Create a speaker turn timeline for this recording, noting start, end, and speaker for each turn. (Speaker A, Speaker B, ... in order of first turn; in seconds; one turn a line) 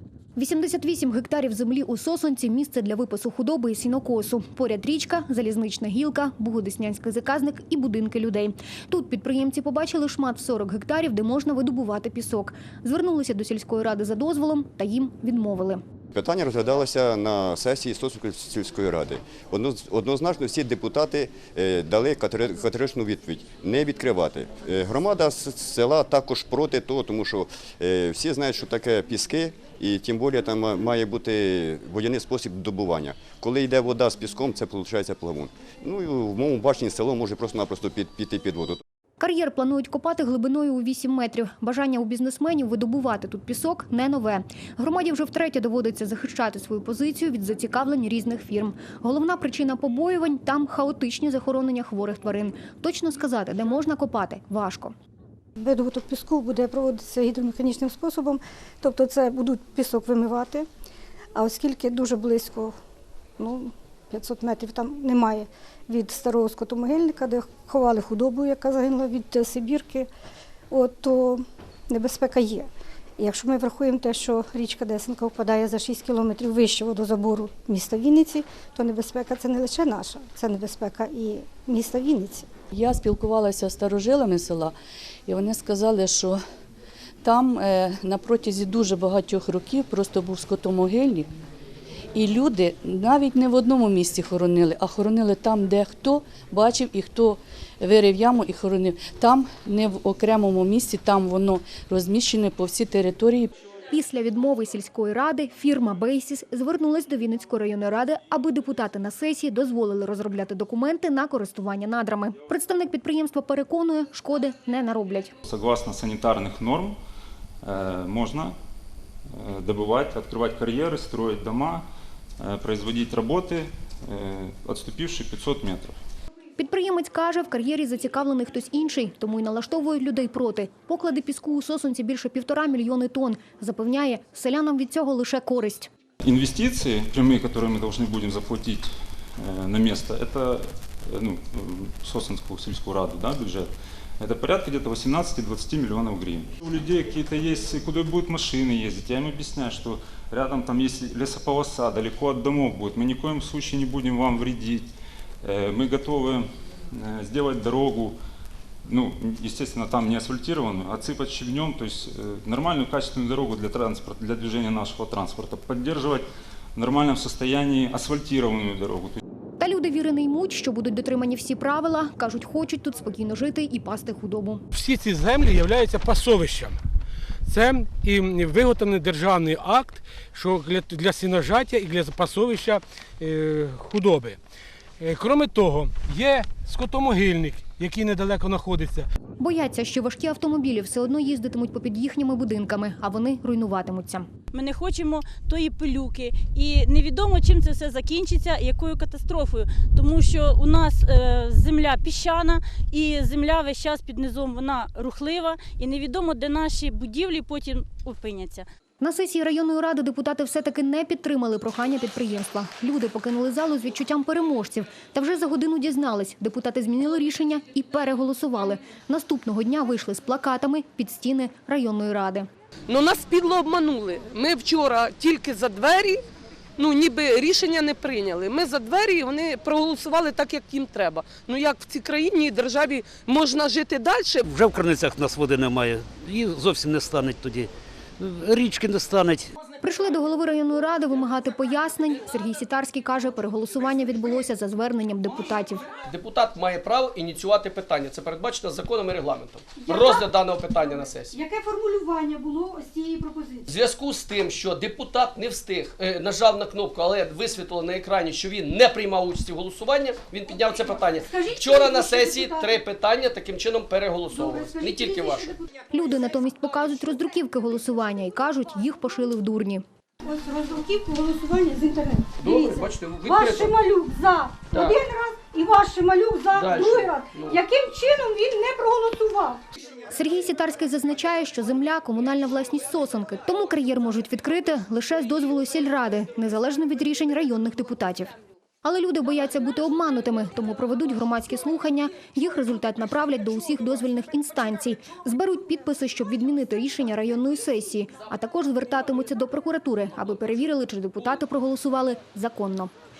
Speaker A: 0.3-15.8
Speaker B: 16.1-38.8
Speaker A: 39.2-54.9
Speaker C: 55.6-60.7
Speaker C: 61.3-62.7
Speaker C: 63.4-70.1
Speaker C: 70.7-82.5
Speaker D: 82.7-84.7
Speaker D: 85.3-86.4
Speaker D: 87.2-91.3
Speaker D: 92.1-103.5
Speaker A: 103.9-115.3
Speaker E: 115.4-117.0
Speaker E: 117.6-118.5
Speaker E: 119.3-121.8
Speaker E: 122.4-125.9
Speaker A: 126.5-135.9
Speaker E: 136.2-154.8
Speaker E: 155.4-158.2
Speaker E: 158.8-169.2
Speaker A: 169.6-174.6
Speaker F: 174.7-176.8
Speaker F: 177.4-184.4
Speaker F: 185.0-189.1
Speaker A: 189.4-194.3
Speaker G: 194.6-208.6
Speaker A: 209.0-222.5
Speaker H: 222.9-226.2
Speaker H: 226.8-234.4
Speaker I: 234.4-239.5
Speaker A: 239.8-245.8
Speaker J: 246.1-251.3
Speaker C: 249.8-250.1
Speaker C: 250.9-253.6
Speaker J: 253.7-265.5
Speaker C: 261.2-262.8
Speaker C: 264.3-265.6
Speaker A: 265.9-269.8
Speaker C: 270.2-279.6
Speaker J: 272.4-273.7
Speaker J: 276.6-277.5
Speaker A: 280.1-288.3
Speaker A: 288.8-302.9